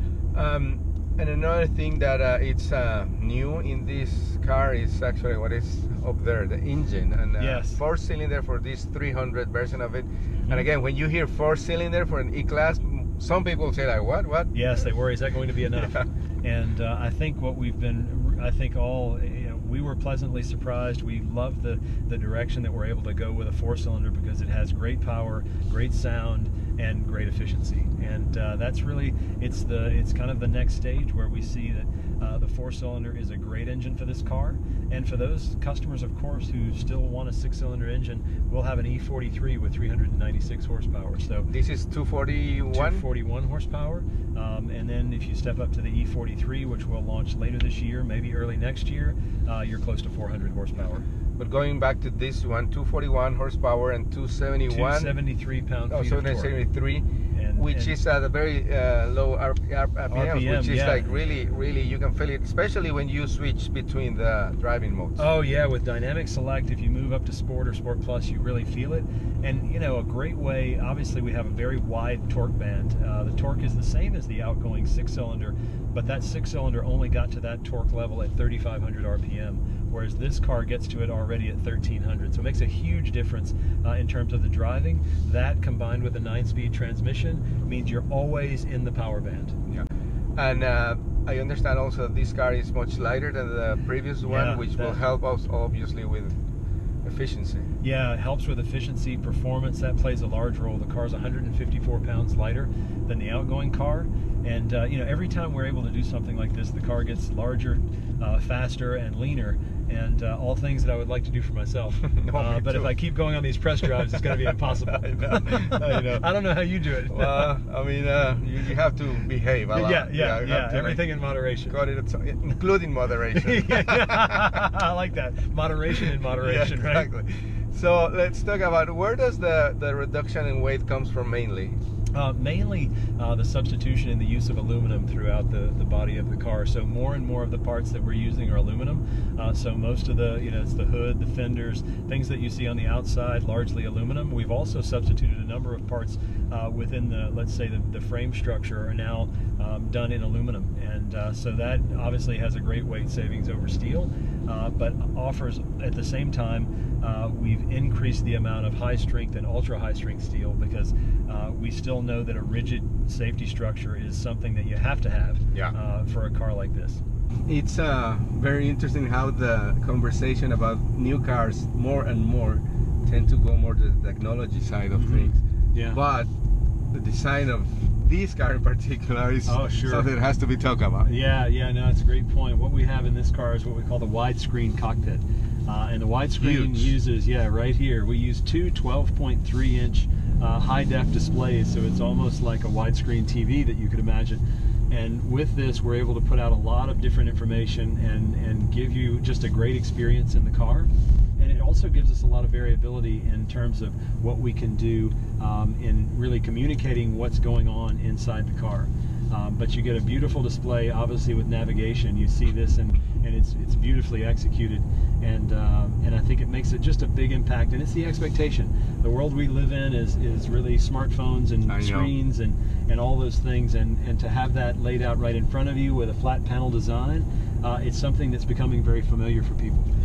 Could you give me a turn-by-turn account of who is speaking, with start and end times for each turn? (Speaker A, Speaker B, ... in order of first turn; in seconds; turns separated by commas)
Speaker A: 0.3-14.5, Speaker B: 7.4-7.8, Speaker B: 10.3-10.7, Speaker B: 14.5-41.5, Speaker A: 15.8-16.1, Speaker A: 41.5-43.0, Speaker B: 42.7-51.0, Speaker A: 51.4-55.1, Speaker B: 54.7-56.5, Speaker A: 55.9-65.2, Speaker B: 57.3-57.9, Speaker B: 60.1-61.0, Speaker B: 65.2-89.6, Speaker A: 89.7-96.4, Speaker B: 94.2-95.0, Speaker A: 97.0-97.7, Speaker B: 97.8-117.5, Speaker A: 112.0-112.9, Speaker A: 114.0-116.3, Speaker A: 117.1-121.0, Speaker B: 119.7-121.8, Speaker A: 121.7-124.5, Speaker B: 123.3-127.1, Speaker A: 125.9-131.8, Speaker B: 132.1-167.0, Speaker A: 167.4-175.4, Speaker B: 174.9-176.0, Speaker A: 175.9-176.3, Speaker A: 176.9-181.1, Speaker B: 179.4-180.1, Speaker B: 181.0-229.9, Speaker A: 186.4-186.9, Speaker A: 221.7-222.1